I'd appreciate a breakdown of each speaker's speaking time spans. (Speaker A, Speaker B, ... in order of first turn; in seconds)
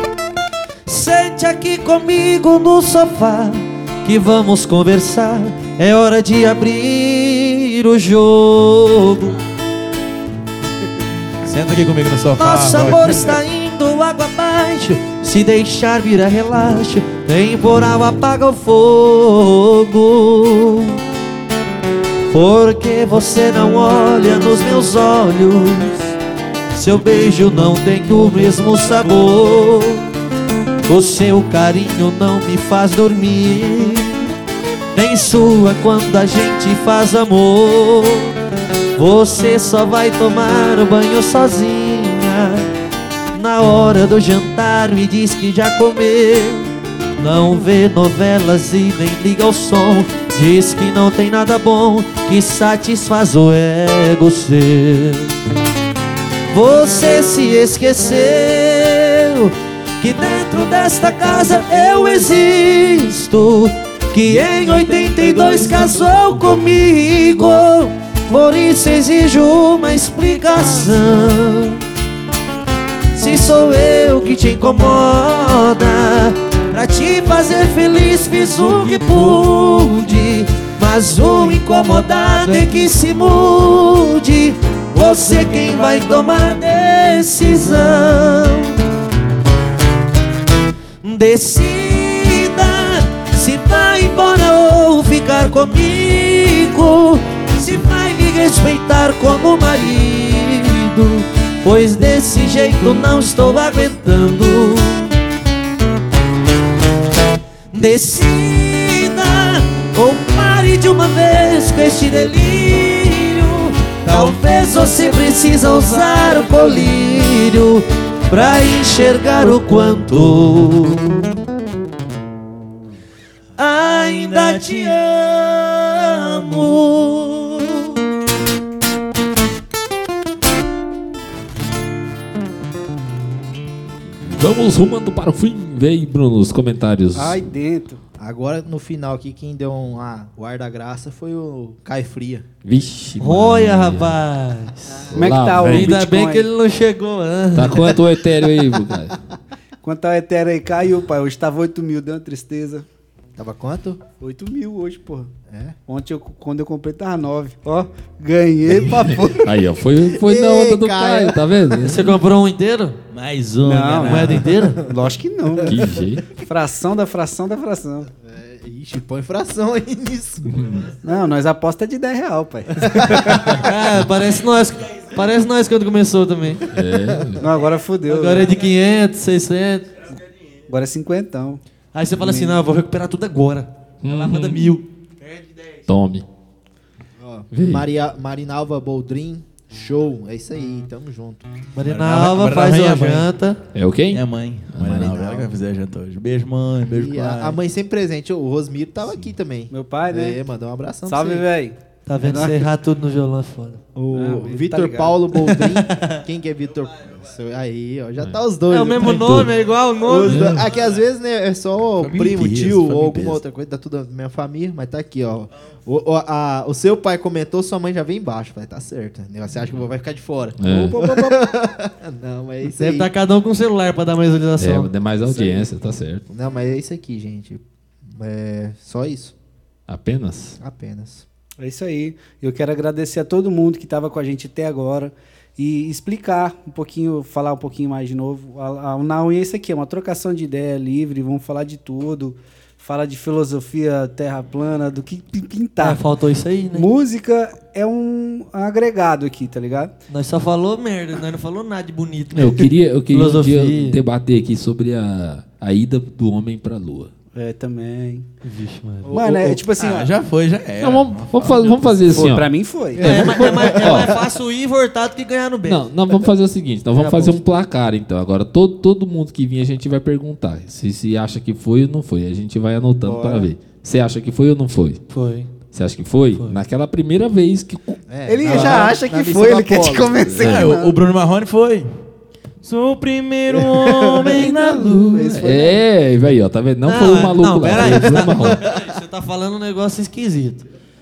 Speaker A: 0.8-9.3, 12.4-21.0, 22.3-26.1, 26.7-30.0, 30.8-34.2, 34.9-38.3, 39.0-42.7, 43.3-55.3, 56.5-71.8, 73.1-88.8, 91.0-105.1, 107.7-121.2, 123.6-127.8, 143.2-148.0, 161.8-163.0, 164.0-164.8, 173.5-176.7, 178.1-179.9, 181.9-184.8, 191.7-193.6, 202.1-203.8, 205.5-206.2, 208.7-210.5, 222.6-224.9, 245.8-246.9, 250.1-254.0, 258.4-259.1, 263.0-265.9, 266.9-267.4, 275.1-275.5, 286.8-290.7
Speaker B: 11.4-13.3, 65.5-65.8, 114.0-114.4, 120.3-120.5, 124.0-125.1, 163.1-164.4, 191.8-193.3, 194.1-197.6, 210.2-210.7, 212.0-213.4, 259.8-262.2, 280.3-281.9, 282.6-285.4
Speaker C: 12.8-13.3, 137.1-138.0, 144.9-146.5, 149.8-152.8, 154.2-155.3, 155.9-159.5, 163.6-168.1, 171.0-173.7, 177.4-178.5, 180.7-181.6, 182.2-182.6, 199.7-200.4, 201.1-202.6, 204.1-205.2, 220.7-221.4, 231.6-246.0, 246.7-249.9, 257.3-258.2, 259.1-260.1, 262.1-263.5, 278.2-280.9, 283.8-285.8
Speaker D: 134.3-137.4, 142.6-144.2, 145.1-146.0, 147.5-149.2, 158.7-162.2, 165.6-166.3, 170.5-170.9, 176.7-177.4, 184.0-184.7, 185.9-186.2, 187.5-187.8, 193.7-194.2, 194.8-195.1, 209.0-209.5, 220.6-221.0, 224.6-226.2, 229.9-230.6, 252.3-257.1, 260.8-262.5, 263.6-264.1, 265.6-275.0, 275.7-278.8, 285.4-288.6
Speaker E: 138.2-142.4, 153.4-154.0, 155.5-155.8, 159.1-159.5, 160.0-161.4, 168.2-170.6, 172.8-173.3, 176.9-177.3, 187.2-191.4, 194.8-195.6, 196.8-201.4, 203.9-209.4, 210.1-223.1, 226.3-229.3, 230.6-231.2, 259.1-259.6, 263.0-264.2, 273.0-273.4, 278.1-280.7, 287.9-288.8